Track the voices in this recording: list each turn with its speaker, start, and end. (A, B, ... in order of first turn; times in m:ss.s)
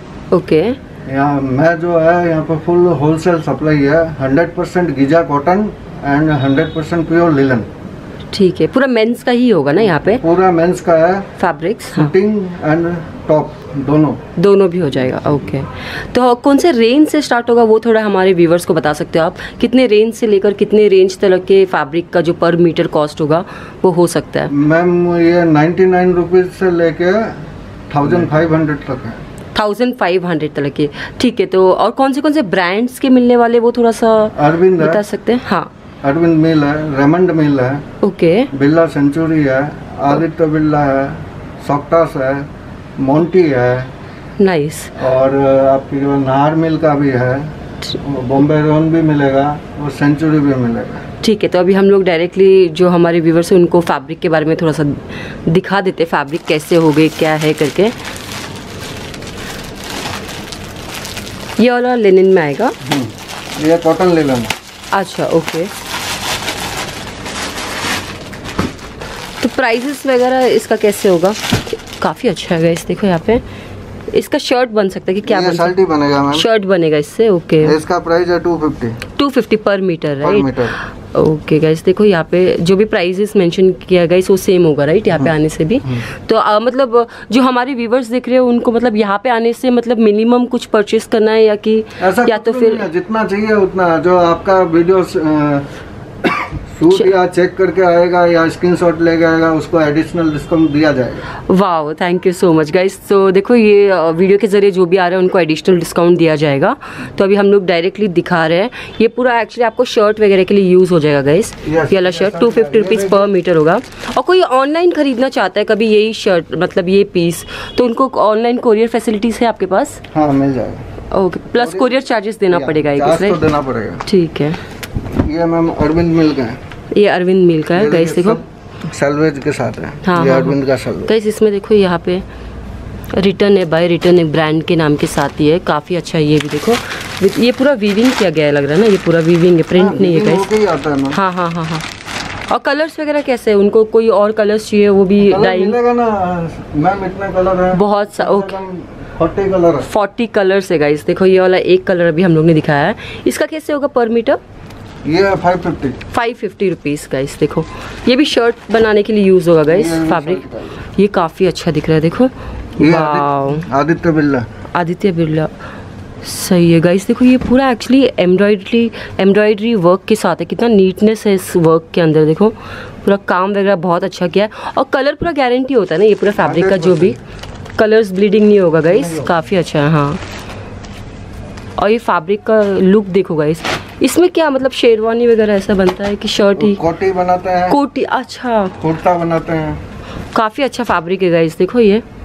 0:00.3-0:00.8 A
0:01.1-0:07.7 B
0:08.3-0:10.2 A
0:10.2-0:11.3 B
0:11.4-0:12.1 A
0:11.9-0:14.2 B
0:14.4-0:24.5 A
0:24.5-0:29.2 B
0:29.6-0:35.7 A
0:34.4-0:35.0 B
0:36.0-0:37.8 B
0:38.0-0:38.5 A
0:38.5-0:43.9 B
0:44.4-0:45.0 A
0:45.0-0:51.1 B
0:51.2-0:58.0 A
1:01.6-1:02.8 A
1:02.8-1:04.5 B
1:04.9-1:05.7 A
1:09.4-1:13.4 A
1:14.1-1:15.8 A
1:15.3-1:16.5 B
1:16.3-1:17.8 A
1:17.6-1:19.0 B
1:19.2-1:32.9 A
1:20.2-1:20.8 B
1:32.0-1:35.7 B
1:36.2-1:41.3 B
1:41.5-2:00.0 A
1:51.6-1:53.3 B
2:00.1-2:00.9 B
2:01.1-2:03.4 A
2:01.5-2:02.0 B
2:02.5-2:04.0 B
2:04.0-2:04.6 A
2:05.0-2:06.6 B
2:06.9-2:08.4 A
2:07.7-2:11.1 B
2:10.0-2:12.2 A
2:13.1-2:20.5 A
2:19.8-2:21.2 B
2:21.1-2:21.9 A
2:22.5-2:25.8 A
2:25.2-2:29.9 B
2:27.7-2:28.6 A
2:29.8-2:34.4 A
2:35.0-2:36.0 B
2:36.1-2:43.7 A
2:39.7-2:40.8 B
2:42.8-2:44.5 B
2:44.7-2:45.6 A
2:46.2-2:57.2 A
2:56.4-2:57.2 B
2:57.8-3:00.2 A
2:58.9-2:59.3 B
3:01.8-3:06.8 A
3:06.6-3:07.8 B
3:07.7-3:08.8 A
3:08.8-3:09.8 B
3:10.3-3:12.0 A